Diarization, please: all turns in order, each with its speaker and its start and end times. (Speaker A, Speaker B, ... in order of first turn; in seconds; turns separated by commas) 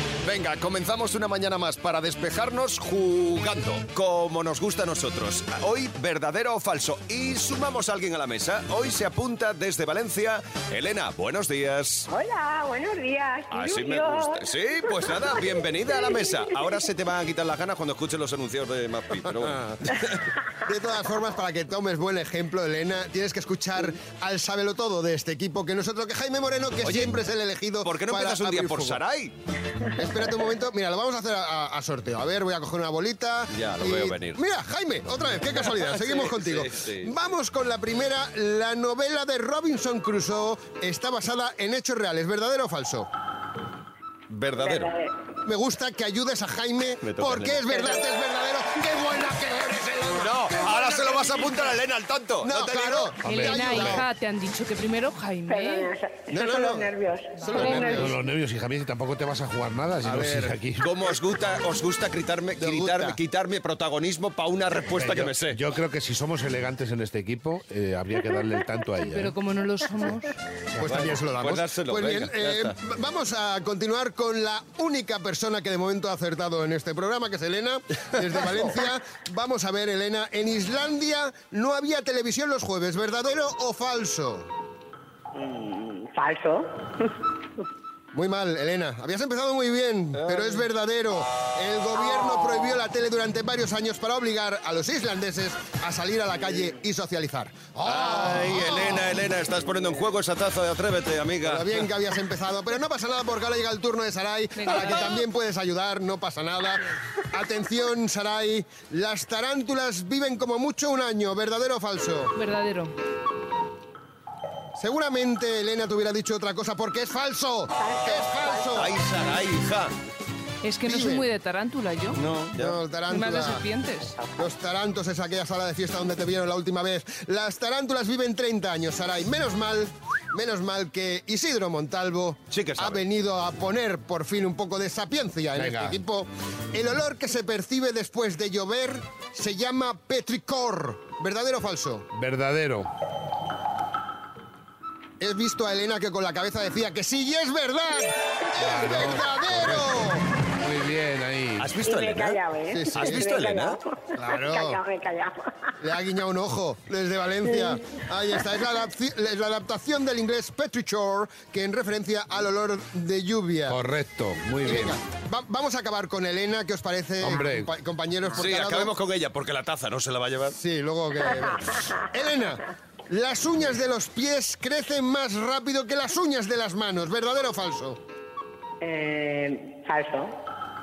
Speaker A: 0.2-12.1, Speaker B: 12.1-16.8, Speaker A: 13.5-20.2, Speaker C: 20.6-29.0, Speaker A: 26.8-27.1, Speaker A: 27.8-29.3, Speaker C: 30.0-43.1, Speaker A: 33.5-34.4, Speaker A: 35.5-37.1, Speaker A: 44.3-45.0, Speaker B: 44.6-45.1, Speaker C: 45.5-51.7, Speaker A: 47.0-47.8, Speaker A: 50.2-53.2, Speaker C: 52.4-54.1, Speaker D: 53.2-54.0, Speaker E: 53.2-55.9, Speaker B: 55.5-58.1, Speaker C: 56.3-58.1, Speaker E: 57.4-57.9, Speaker D: 57.9-60.9, Speaker C: 60.0-60.6, Speaker A: 60.8-65.6, Speaker C: 62.6-63.2, Speaker D: 65.0-69.3, Speaker E: 69.0-70.3, Speaker C: 70.7-84.5, Speaker A: 70.8-72.8, Speaker A: 78.3-78.8, Speaker B: 85.3-87.0, Speaker C: 88.1-99.2, Speaker A: 90.1-90.7, Speaker B: 92.0-92.7, Speaker A: 97.8-101.9, Speaker C: 101.4-112.3, Speaker E: 104.6-105.2, Speaker E: 112.3-113.0, Speaker C: 114.8-118.9, Speaker B: 117.8-118.9, Speaker A: 118.7-119.9, Speaker E: 120.6-122.2, Speaker C: 120.8-121.3, Speaker A: 122.1-122.8, Speaker C: 122.5-123.6, Speaker E: 123.1-124.2, Speaker C: 124.4-142.1, Speaker A: 132.5-133.0, Speaker D: 135.6-136.0, Speaker D: 142.1-142.9, Speaker C: 145.2-150.2, Speaker D: 148.6-151.7, Speaker A: 151.6-152.4, Speaker B: 151.8-155.9, Speaker C: 152.7-153.3, Speaker A: 152.9-153.8, Speaker C: 154.2-154.8, Speaker C: 155.8-163.8, Speaker B: 157.5-158.5, Speaker D: 163.7-165.0, Speaker C: 164.6-168.9, Speaker D: 167.2-167.7, Speaker A: 168.4-170.6, Speaker C: 170.6-178.0, Speaker B: 178.8-180.3